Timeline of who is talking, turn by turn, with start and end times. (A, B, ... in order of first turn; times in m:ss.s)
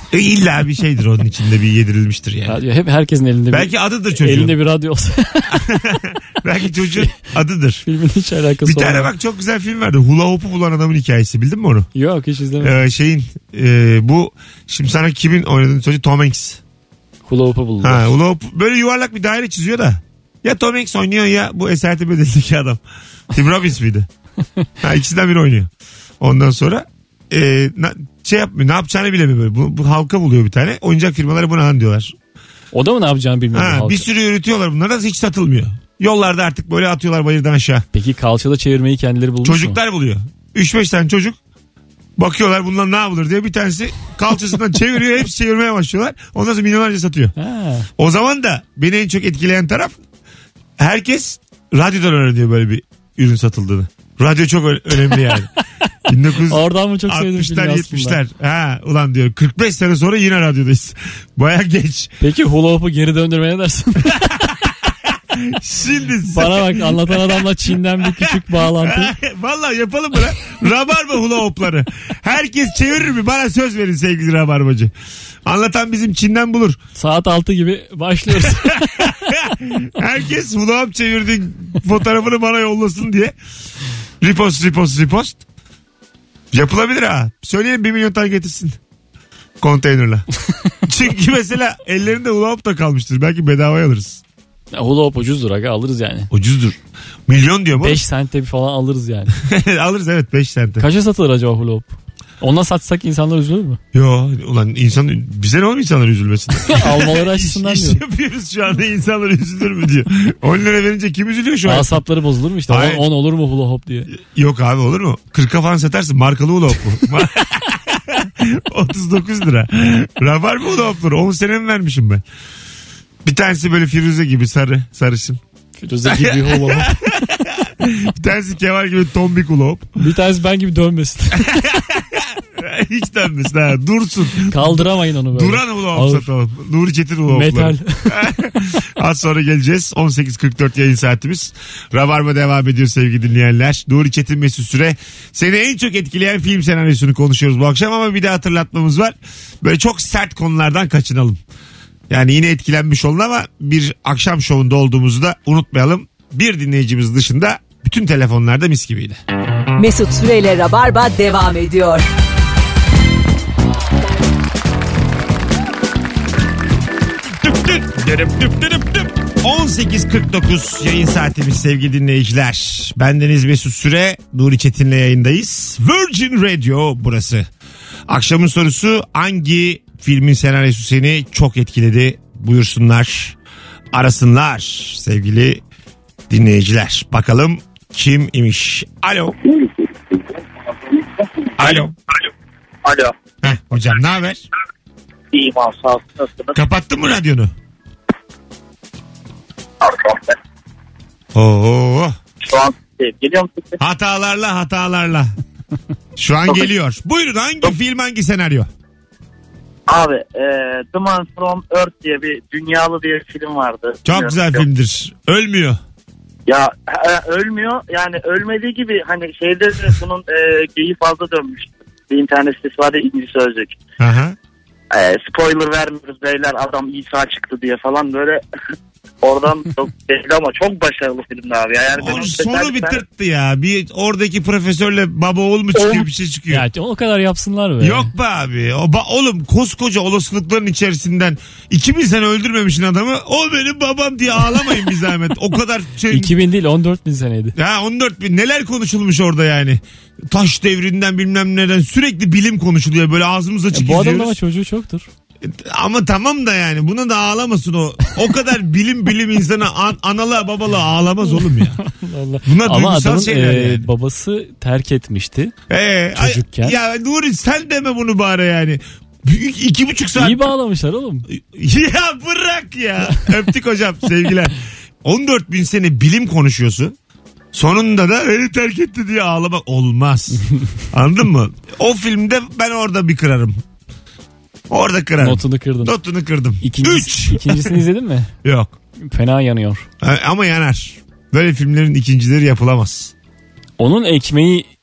0:00.1-0:02.6 A
0:02.5-0:05.7 B
0:03.5-0:04.6 A
0:05.7-0:07.8 A
0:07.8-0:09.1 B
0:08.6-0:11.9 A
0:12.0-0:12.8 B
0:12.6-0:16.6 A
0:17.3-0:18.1 B
0:17.8-0:22.8 A
0:23.3-0:24.1 A
0:24.8-0:25.7 A
0:26.2-0:32.1 A
0:32.7-0:34.0 B
0:33.5-0:37.8 A
0:37.9-0:39.8 B
0:39.4-0:41.4 A
0:42.2-0:47.3 A
0:47.4-0:47.9 B
0:48.0-0:49.9 A
0:50.8-0:55.5 A
0:56.1-1:02.1 A
0:56.4-0:58.2 B
1:02.2-1:04.4 B
1:04.7-1:07.4 A
1:06.3-1:09.1 B
1:08.0-1:14.9 A
1:15.5-1:16.8 A
1:17.0-1:18.7 B
1:18.4-1:23.4 A
1:24.2-1:25.4 A
1:26.5-1:28.8 A
1:29.6-1:30.3 A
1:30.8-1:34.2 A
1:34.7-1:36.3 B
1:36.3-1:38.0 A
1:37.8-1:39.3 B
1:39.4-1:40.8 A
1:40.8-1:43.8 B
1:43.9-1:52.0 A
1:46.7-1:48.0 B
1:51.7-1:54.1 B
1:52.7-1:53.0 A
1:54.1-2:02.2 A
2:03.2-2:05.4 A
2:05.8-2:07.0 B
2:06.0-2:09.9 A
2:10.0-2:11.5 B
2:11.3-2:31.4 A
2:14.5-2:16.3 B
2:17.3-2:18.2 B
2:32.1-2:39.2 A
2:39.8-2:42.0 C
2:47.4-2:57.5 A
2:58.1-3:03.4 A
3:03.9-3:05.6 A
3:06.3-3:09.4 A
3:11.6-3:11.9 A
3:12.8-3:13.1 D
3:13.4-3:14.4 A
3:15.3-3:16.6 D
3:16.6-3:17.5 A
3:19.8-3:20.3 D
3:21.3-3:22.2 A
3:22.4-3:23.8 D
3:23.8-3:25.3 A
3:26.2-3:28.7 A
3:29.9-3:34.6 D
3:34.0-3:35.8 A
3:36.5-3:43.8 D
3:44.0-3:44.4 A
3:44.9-3:48.4 D
3:49.2-3:53.0 D
3:52.0-3:56.6 A
3:56.5-3:58.1 B
3:57.8-4:06.3 A
4:06.1-4:07.6 B
4:07.6-4:14.4 A
4:13.7-4:15.1 B
4:15.4-4:21.8 A
4:21.3-4:25.5 B
4:22.5-4:23.8 A
4:25.7-4:30.4 A
4:26.2-4:26.8 B
4:30.2-4:31.3 B
4:31.3-4:37.0 A
4:37.5-4:43.6 A
4:44.7-4:47.8 A
4:45.2-4:45.9 B
4:46.6-4:48.3 B
4:48.4-4:48.7 A
4:49.0-4:49.9 B
4:50.0-4:53.1 A
4:53.8-4:54.7 B